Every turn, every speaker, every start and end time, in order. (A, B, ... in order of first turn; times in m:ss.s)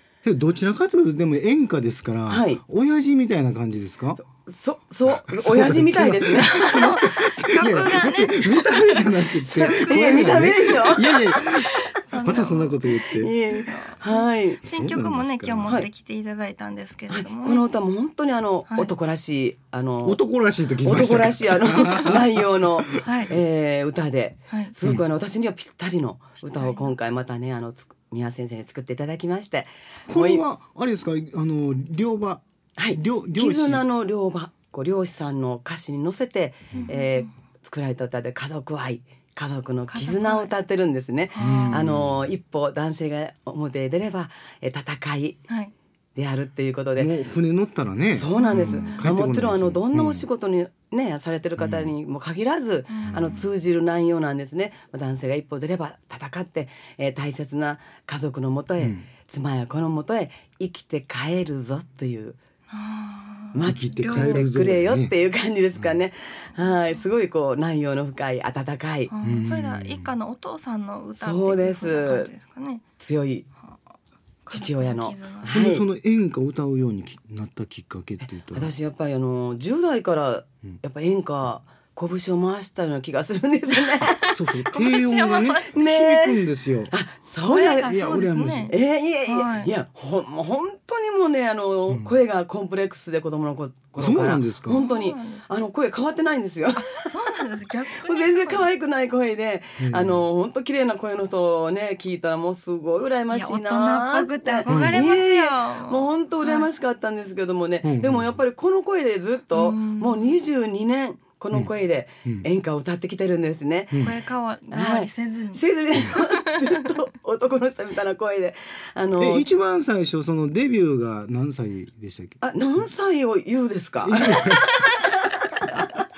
0:00.2-0:04.2 A
0:02.3-0:02.6 B
0:04.2-0:06.6 B
0:05.1-0:13.3 A
0:06.4-0:10.4 C
0:09.4-0:11.4 B
0:11.9-0:12.9 C
0:13.2-0:14.6 B
0:13.5-0:17.6 C
0:14.6-0:15.8 A
0:17.1-0:20.2 B
0:18.7-0:18.9 C
0:20.0-0:23.0 A
0:20.8-0:30.4 B
0:23.0-0:23.3 C
0:26.4-0:26.9 C
0:30.1-0:33.8 A
0:32.8-0:45.4 B
0:36.7-0:37.3 C
0:39.9-0:40.5 C
0:41.3-0:41.8 C
0:41.4-0:42.3 A
0:46.2-0:47.1 B
0:47.0-0:50.3 A
0:48.1-1:02.4 B
0:48.3-0:49.1 C
0:51.6-0:51.9 A
0:52.9-0:53.4 C
0:53.1-0:53.4 A
0:58.8-0:59.1 A
1:02.7-1:04.4 C
1:03.5-1:09.1 B
1:03.6-1:05.1 A
1:06.6-1:06.9 C
1:09.1-1:12.8 C
1:09.2-1:10.1 A
1:11.2-1:12.3 B
1:13.0-1:13.5 B
1:14.4-1:15.6 C
1:14.5-1:15.8 B
1:15.5-1:18.7 A
1:18.5-1:24.2 B
1:24.1-1:25.8 C
1:24.3-1:26.9 A
1:25.8-1:28.0 B
1:27.5-1:28.7 C
1:27.8-1:28.7 A
1:28.7-1:37.0 B
1:29.3-1:29.7 C
1:34.0-1:34.8 A
1:34.7-1:35.6 C
1:36.7-1:38.7 C
1:37.9-1:54.1 B
1:39.8-1:40.2 A
1:43.3-1:46.7 C
1:44.7-1:45.0 A
1:47.8-1:48.3 A
1:49.5-1:50.3 C
1:54.0-1:56.6 C
1:54.7-1:59.5 B
1:59.2-2:02.4 A
2:02.4-2:05.6 B
2:04.0-2:04.8 A